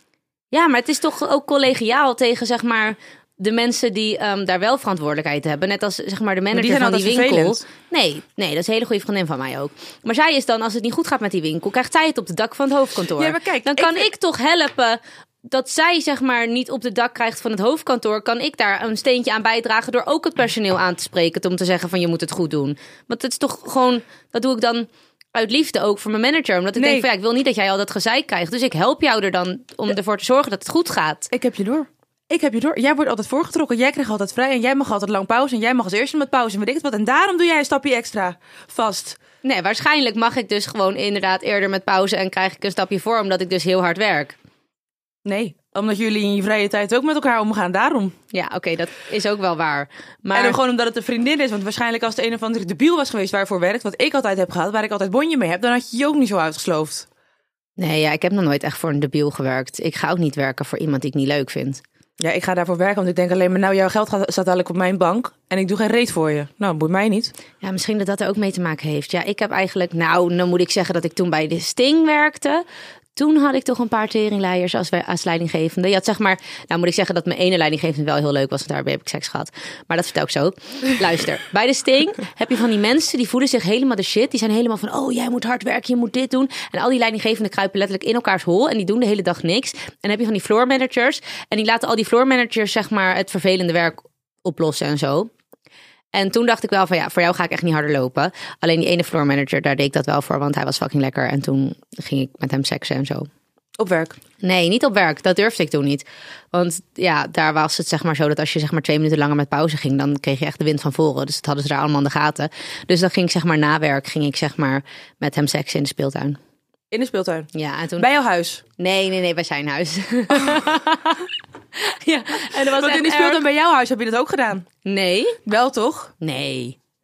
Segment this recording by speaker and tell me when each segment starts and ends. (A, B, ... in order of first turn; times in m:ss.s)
0:00.5-0:31.3 A
0:06.5-0:07.6 B
0:13.2-0:14.1 B
0:26.8-0:27.1 B
0:31.3-0:39.2 B
0:39.4-0:44.4 A
0:45.2-0:48.2 B
0:48.3-0:50.6 A
0:50.3-0:57.1 B
0:57.8-1:01.8 A
1:02.2-1:07.3 B
1:07.6-1:12.6 A
1:13.2-1:35.3 A
1:36.1-1:43.3 A
1:43.8-1:44.2 B
1:44.4-1:56.4 A
1:56.9-1:58.6 B
1:57.5-1:58.1 A
1:58.8-2:03.4 A
2:02.8-2:04.7 B
2:04.8-2:05.4 A
2:05.5-2:06.1 B
2:06.2-2:06.8 A